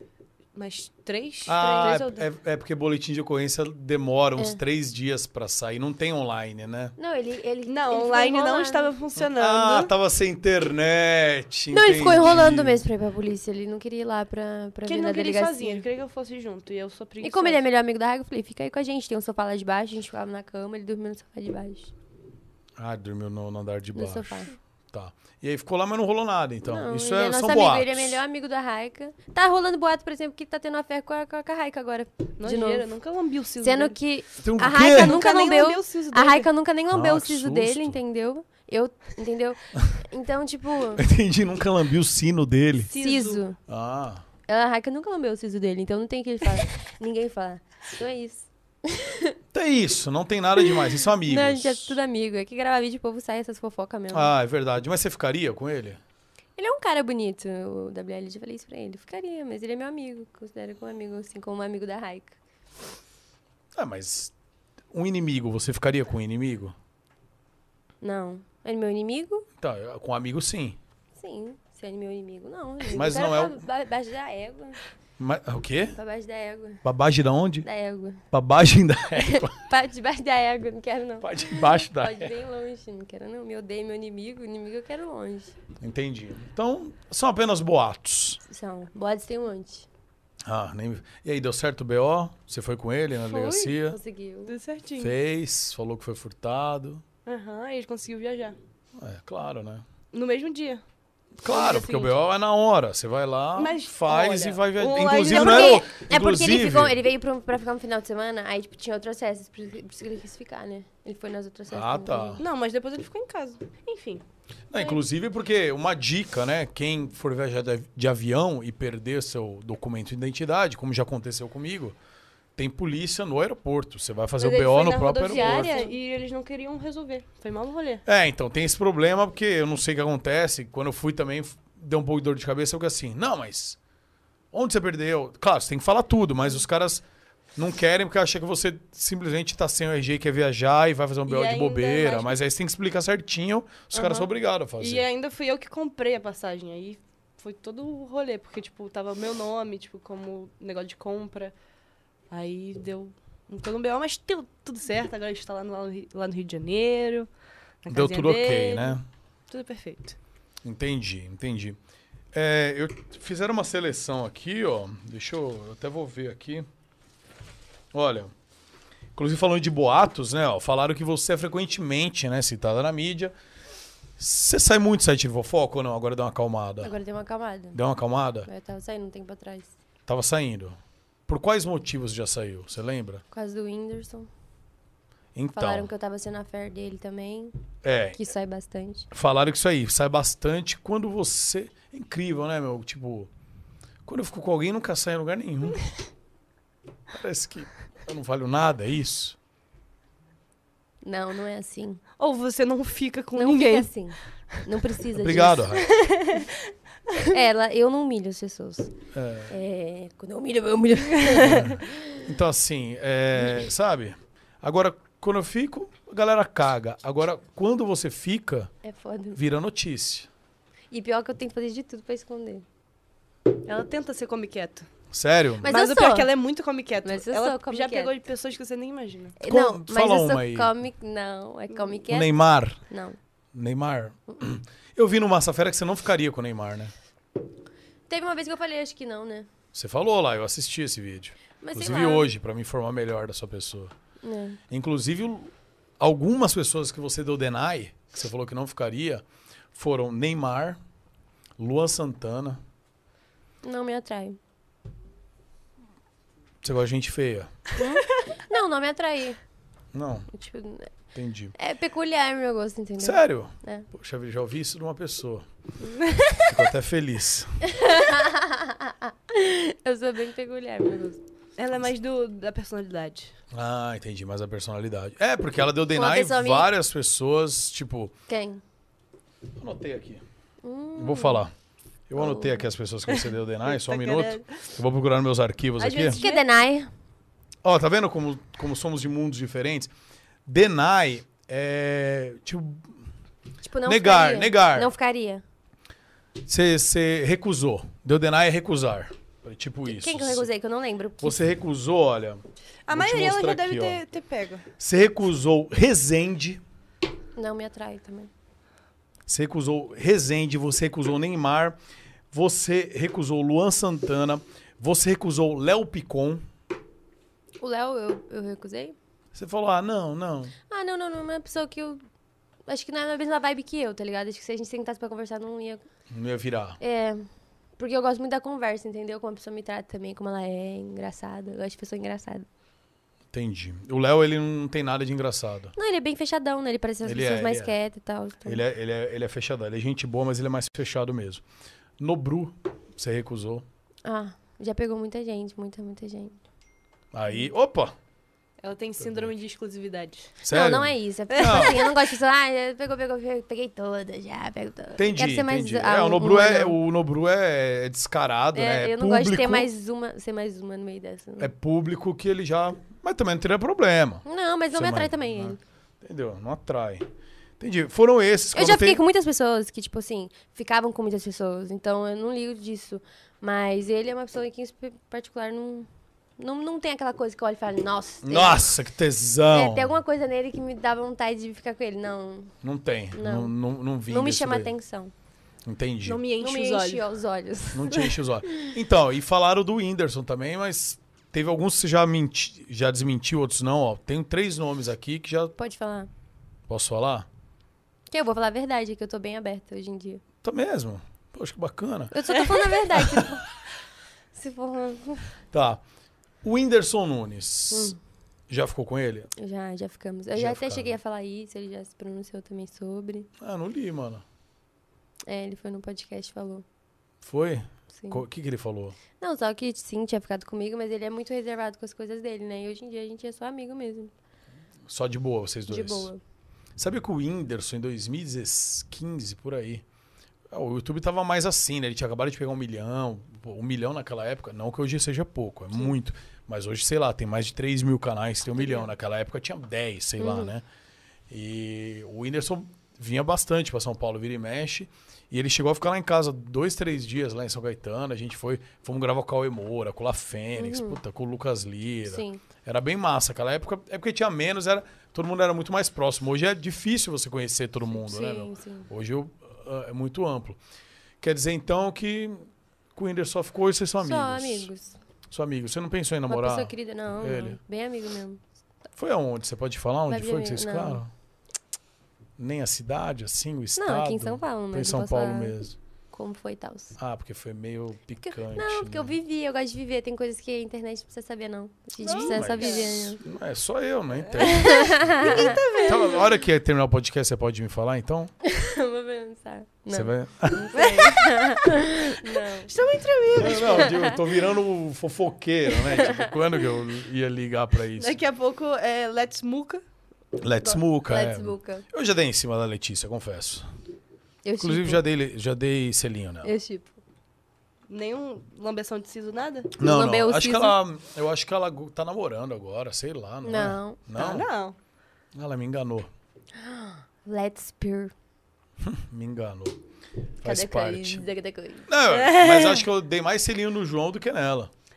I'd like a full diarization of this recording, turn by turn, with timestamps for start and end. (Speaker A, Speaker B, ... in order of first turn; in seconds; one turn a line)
Speaker A: 0.6-2.3
Speaker B: 1.5-7.0
Speaker C: 7.0-8.9
Speaker A: 7.7-9.9
Speaker B: 9.2-12.8
Speaker C: 11.7-15.8
Speaker A: 14.9-17.6
Speaker C: 17.2-21.9
Speaker B: 22.8-28.2
Speaker C: 23.9-24.5
Speaker C: 26.6-32.9
Speaker A: 32.4-34.0
Speaker C: 33.6-41.0
Speaker B: 34.4-35.2
Speaker A: 34.8-36.5
Speaker B: 36.9-38.0
Speaker B: 41.0-42.9
Speaker A: 42.9-43.4
Speaker C: 43.0-43.6
Speaker B: 43.7-44.2
Speaker C: 44.5-49.4
Speaker B: 49.5-52.0
Speaker C: 51.2-54.3
Speaker B: 54.1-56.0
Speaker C: 56.6-62.4
Speaker B: 63.8-64.3
Speaker B: 64.9-66.8
Speaker C: 68.0-69.5
Speaker B: 69.6-70.8
Speaker C: 71.2-74.8
Speaker B: 72.9-73.6
Speaker B: 75.2-76.0
Speaker C: 76.0-76.8
Speaker B: 76.8-77.7
Speaker C: 77.6-78.2
Speaker B: 78.3-79.6
Speaker C: 79.2-85.5
Speaker B: 81.2-82.3
Speaker B: 85.8-88.4
Speaker C: 88.5-89.9
Speaker B: 90.5-94.0
Speaker C: 93.2-94.5
Speaker A: 94.5-95.1
Speaker B: 95.0-97.0
Speaker A: 97.3-98.6
Speaker B: 99.0-99.8
Speaker A: 100.1-100.8
Speaker B: 101.4-107.0
Speaker A: 101.5-102.2
Speaker A: 103.6-105.8
Speaker C: 105.2-112.4
Speaker B: 111.7-112.4
Speaker A: 112.4-114.2
Speaker B: 114.7-122.0
Speaker B: 122.6-125.7
Speaker A: 124.4-128.0
Speaker C: 125.3-125.9
Speaker B: 128.1-133.8
Speaker B: 134.5-137.0
Speaker B: 137.6-145.1
Speaker A: 141.3-142.4
Speaker A: 143.9-144.3
Speaker A: 144.8-151.5
Speaker A: 152.3-157.3
Speaker A: 157.8-160.2
Speaker B: 157.9-159.1
Speaker B: 160.6-161.8
Speaker B: 162.3-166.7
Speaker B: 167.9-168.3
Speaker B: 169.2-173.3
Speaker B: 174.2-176.9
Speaker C: 176.8-177.8
Speaker B: 177.7-178.5
Speaker C: 178.5-179.7
Speaker B: 180.1-183.2
Speaker C: 183.3-184.3
Speaker B: 185.3-185.9
Speaker C: 185.6-187.5
Speaker B: 187.8-188.2
Speaker C: 188.2-189.1
Speaker B: 189.1-193.3
Speaker B: 194.1-195.8
Speaker B: 197.1-199.4
Speaker C: 201.0-202.0
Speaker A: 202.2-203.9
Speaker C: 203.4-205.7
Speaker B: 205.2-205.9
Speaker A: 205.9-206.5
Speaker C: 207.3-208.9
Speaker B: 209.1-209.5
Speaker C: 209.5-212.2
Speaker B: 211.4-218.7
Speaker C: 218.8-219.4
Speaker B: 219.3-220.3
Speaker C: 220.9-222.7
Speaker A: 223.6-224.9
Speaker B: 225.1-225.7
Speaker C: 225.6-226.3
Speaker A: 225.7-229.4
Speaker C: 227.0-228.1
Speaker C: 229.4-233.2
Speaker B: 229.5-230.7
Speaker B: 232.1-232.8
Speaker B: 233.5-236.9
Speaker C: 238.1-239.5
Speaker B: 239.7-243.9
Speaker C: 241.6-242.3
Speaker C: 244.2-244.6
Speaker B: 244.7-250.8
Speaker B: 251.6-252.6
Speaker C: 253.6-254.4
Speaker B: 256.6-257.6
Speaker C: 257.8-259.4
Speaker B: 259.9-260.3
Speaker C: 260.3-260.9
Speaker B: 261.1-261.6
Speaker C: 261.6-263.9
Speaker B: 263.0-265.5
Speaker B: 266.4-267.6
Speaker C: 267.7-271.2
Speaker A: 271.6-273.3
Speaker B: 273.5-278.1
Speaker C: 275.9-276.7
Speaker C: 278.3-278.6
Speaker B: 279.6-280.2
Speaker C: 280.6-281.4
Speaker B: 281.0-281.5
Speaker B: 282.1-286.2
Speaker C: 282.2-282.6
Speaker A: 283.6-284.6
Speaker A: 285.8-286.4
Speaker C: 286.1-286.9
Speaker B: 287.6-289.9
Speaker B: 290.5-292.9
Speaker C: 293.6-295.4
Speaker B: 293.9-294.9
Speaker B: 296.5-300.5
Speaker C: 299.9-301.4
Speaker B: 301.2-304.0
Speaker A: 302.9-304.7
Speaker B: 304.8-306.6
Speaker C: 307.4-308.3
Speaker B: 309.3-311.8
Speaker B: 312.3-316.4
Speaker C: 317.6-319.0
Speaker B: 319.3-320.5
Speaker C: 320.7-322.0
Speaker C: 322.7-325.9
Speaker B: 326.1-326.8
Speaker C: 326.8-327.3
Speaker C: 327.8-332.5
Speaker B: 333.3-335.7
Speaker C: 335.8-338.6
Speaker B: 337.0-337.7
Speaker B: 338.4-341.4
Speaker B: 342.0-343.7
Speaker C: 344.1-346.4
Speaker B: 347.1-347.9
Speaker A: 348.6-350.4
Speaker B: 349.0-349.3
Speaker B: 350.4-351.9
Speaker C: 350.5-356.8
Speaker A: 351.3-351.9
Speaker B: 355.0-359.7
Speaker C: 358.6-361.5
Speaker B: 361.4-367.1
Speaker C: 364.2-365.6
Speaker B: 367.6-369.0
Speaker C: 368.5-378.7
Speaker B: 378.2-380.0
Speaker C: 379.5-382.5
Speaker B: 382.6-384.7
Speaker C: 383.1-383.5
Speaker C: 384.1-385.1
Speaker B: 385.6-386.2
Speaker A: 386.1-387.1
Speaker C: 386.4-388.7
Speaker B: 387.7-395.5
Speaker C: 395.6-396.1
Speaker B: 396.7-397.3
Speaker C: 398.1-400.2
Speaker B: 400.4-402.4
Speaker C: 402.1-403.4
Speaker B: 402.9-403.3
Speaker C: 404.3-405.3
Speaker B: 405.5-405.8
Speaker B: 406.4-407.9
Speaker C: 407.7-408.0
Speaker B: 408.5-409.3
Speaker C: 409.4-413.3
Speaker B: 410.3-411.0
Speaker B: 413.4-414.2
Speaker C: 415.3-416.6
Speaker B: 417.2-419.0
Speaker C: 417.9-418.2
Speaker C: 419.2-424.1
Speaker B: 424.9-426.1
Speaker C: 425.7-426.2
Speaker B: 426.8-429.8
Speaker B: 430.5-440.6
Speaker C: 440.2-440.5
Speaker B: 441.3-460.6
Speaker C: 450.6-451.0
Speaker C: 452.1-452.4
Speaker C: 457.9-458.9
Speaker B: 461.2-464.7
Speaker C: 464.0-465.0
Speaker B: 465.3-467.6
Speaker C: 466.3-468.4
Speaker B: 468.9-471.1
Speaker C: 470.1-471.0
Speaker B: 472.4-475.8
Speaker C: 473.8-475.6
Speaker C: 476.1-477.0
Speaker B: 477.0-479.1
Speaker C: 478.3-483.2
Speaker A: 482.0-482.9
Speaker B: 482.2-488.3
Speaker A: 484.3-486.3
Speaker C: 484.5-485.8
Speaker C: 488.4-492.7
Speaker B: 489.9-490.8
Speaker A: 490.8-491.6
Speaker A: 492.7-494.0
Speaker B: 493.4-498.2
Speaker C: 493.5-494.1
Speaker C: 495.9-496.3
Speaker A: 498.0-499.8
Speaker B: 500.4-503.7
Speaker C: 500.6-501.9
Speaker C: 504.4-505.0
Speaker B: 504.6-506.5
Speaker C: 506.4-507.0
Speaker A: 507.9-509.7
Speaker B: 509.8-514.5
Speaker C: 509.8-510.8
Speaker C: 513.4-514.0
Speaker A: 514.2-514.8
Speaker B: 515.3-516.1
Speaker C: 516.6-518.1
Speaker B: 518.8-519.8
Speaker B: 520.4-521.3
Speaker C: 520.4-521.9
Speaker B: 521.9-524.7
Speaker A: 522.1-522.8